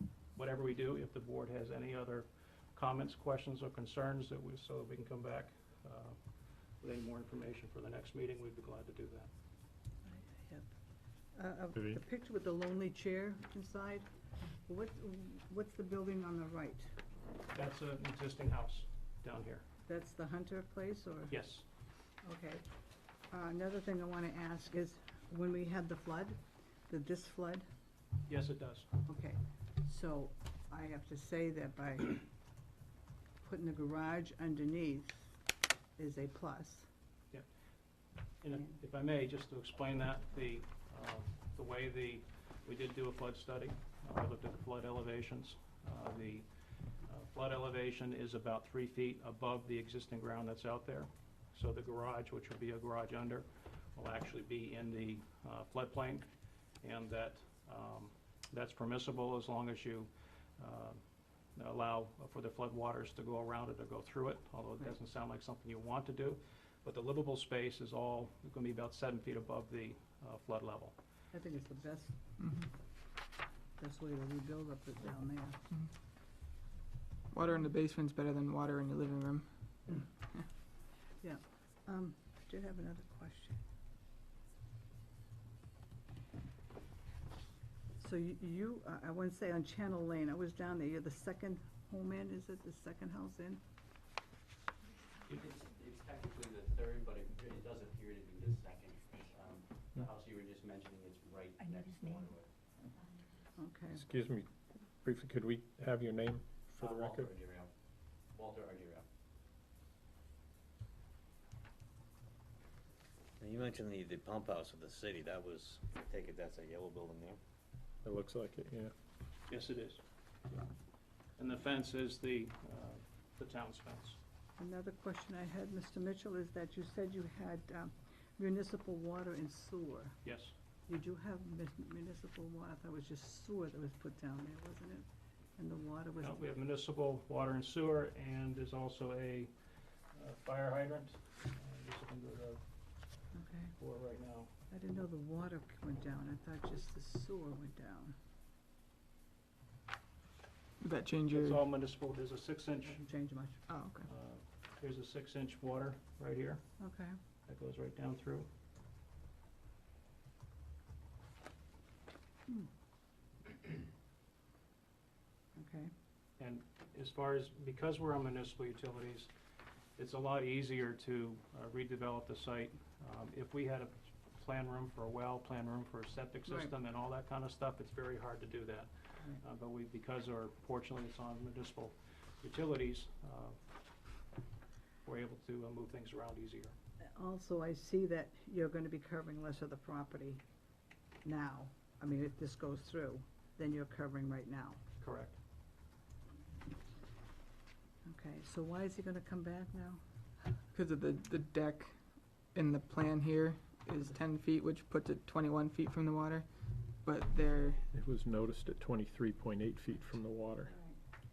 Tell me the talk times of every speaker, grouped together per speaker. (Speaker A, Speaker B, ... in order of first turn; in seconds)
Speaker A: 0.3-6.2, 6.8-9.3, 17.5-19.6, 21.3-21.6, 28.3-28.9, 38.4-46.5, 47.1-56.3, 56.8-61.0, 61.6-71.0, 119.5-120.0, 121.4-124.2, 130.2-130.5, 136.2-139.5, 140.1-142.6, 143.8-144.5, 151.3-153.1, 154.1-156.6, 157.5-158.5, 166.4-169.3, 170.0-183.6, 185.0-186.8, 195.0-195.4
Speaker B: 10.1-10.7, 11.3-14.1, 14.7-16.9, 19.9-21.4, 22.2-22.6, 23.3-26.4, 26.9-27.6, 29.1-32.3, 33.4-35.3, 36.0-36.9, 71.3-72.2, 73.8-75.6, 81.2-83.6, 88.0-93.6, 103.6-104.0, 124.6-130.2, 130.9-135.1, 135.6-136.5, 143.3-143.7, 144.7-148.2, 152.9-153.6, 156.8-157.1, 165.6-165.9, 176.5-176.7, 187.2-190.4, 191.2-194.8, 198.1-200.0
Speaker C: 11.7-12.0, 103.9-104.5, 105.0-107.3, 118.0-118.9, 207.9-210.7
Speaker D: 77.3-79.9, 150.8-151.5, 153.7-154.0, 200.8-201.9, 202.5-206.5, 207.0-207.8
Speaker E: 95.3-102.5, 106.8-107.7, 108.3-109.0, 114.0-114.3, 115.9-116.3
Speaker F: 115.4-117.4